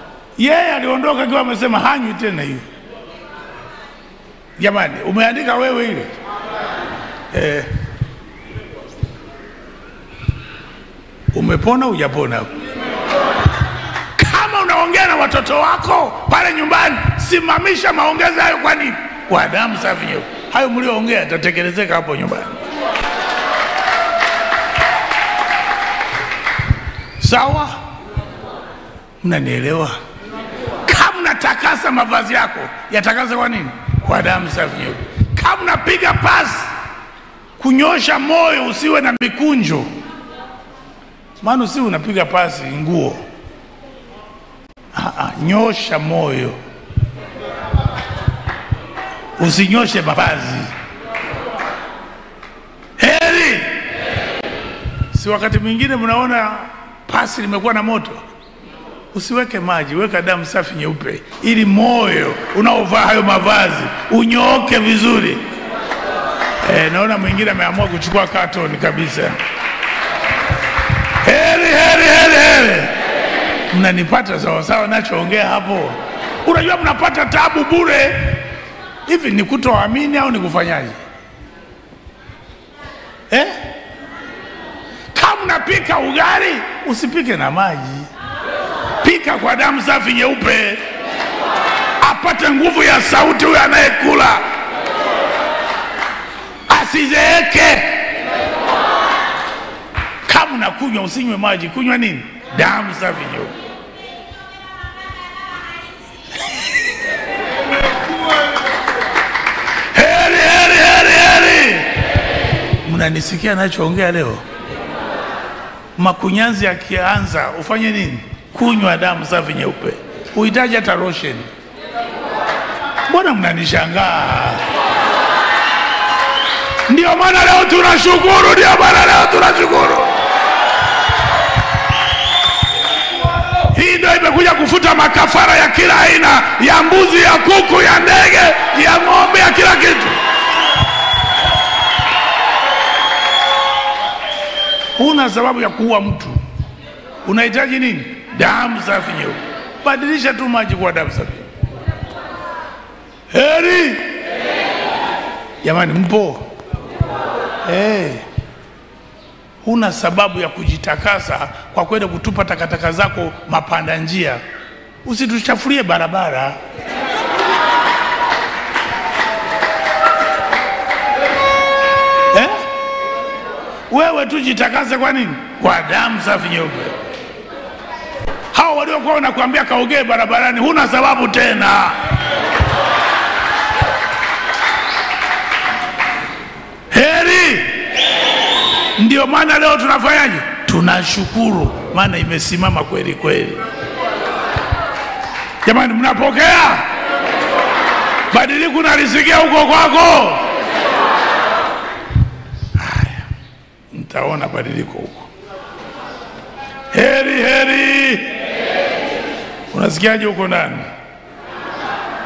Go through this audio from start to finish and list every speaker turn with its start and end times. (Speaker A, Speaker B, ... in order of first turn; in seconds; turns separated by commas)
Speaker A: 0.4-2.6, Speaker A: 4.6-6.1, Speaker A: 7.3-7.7, Speaker A: 11.3-12.5, Speaker A: 14.2-22.6, Speaker A: 27.2-27.8, Speaker A: 29.2-30.0, Speaker A: 30.9-36.7, Speaker A: 37.6-39.9, Speaker A: 41.4-43.2, Speaker A: 45.0-46.6, Speaker A: 49.4-50.7, Speaker A: 53.0-53.7, Speaker A: 55.1-58.2, Speaker A: 59.1-65.4, Speaker A: 66.6-69.4, Speaker A: 71.2-72.9, Speaker A: 73.7-78.4, Speaker A: 79.1-81.0, Speaker A: 85.2-88.1, Speaker A: 89.0-90.8, Speaker A: 92.0-94.4, Speaker A: 96.7-98.1, Speaker A: 100.3-103.5, Speaker A: 109.9-111.9, Speaker A: 112.8-114.4, Speaker A: 116.0-121.5, Speaker A: 123.1-124.6, Speaker A: 126.9-130.1, Speaker A: 133.7-140.2, Speaker A: 145.0-146.4, Speaker A: 147.2-151.5, Speaker A: 153.3-154.1, Speaker A: 155.6-156.4, Speaker A: 157.7-158.2, Speaker A: 159.6-164.4, Speaker A: 165.1-166.6, Speaker A: 173.9-176.9, Speaker A: 178.5-182.0, Speaker A: 186.9-187.8, Speaker A: 189.0-193.6, Speaker A: 195.7-196.9, Speaker A: 198.3-200.4, Speaker A: 202.8-203.2, Speaker A: 203.9-205.3, Speaker A: 206.9-208.3, Speaker A: 209.7-210.9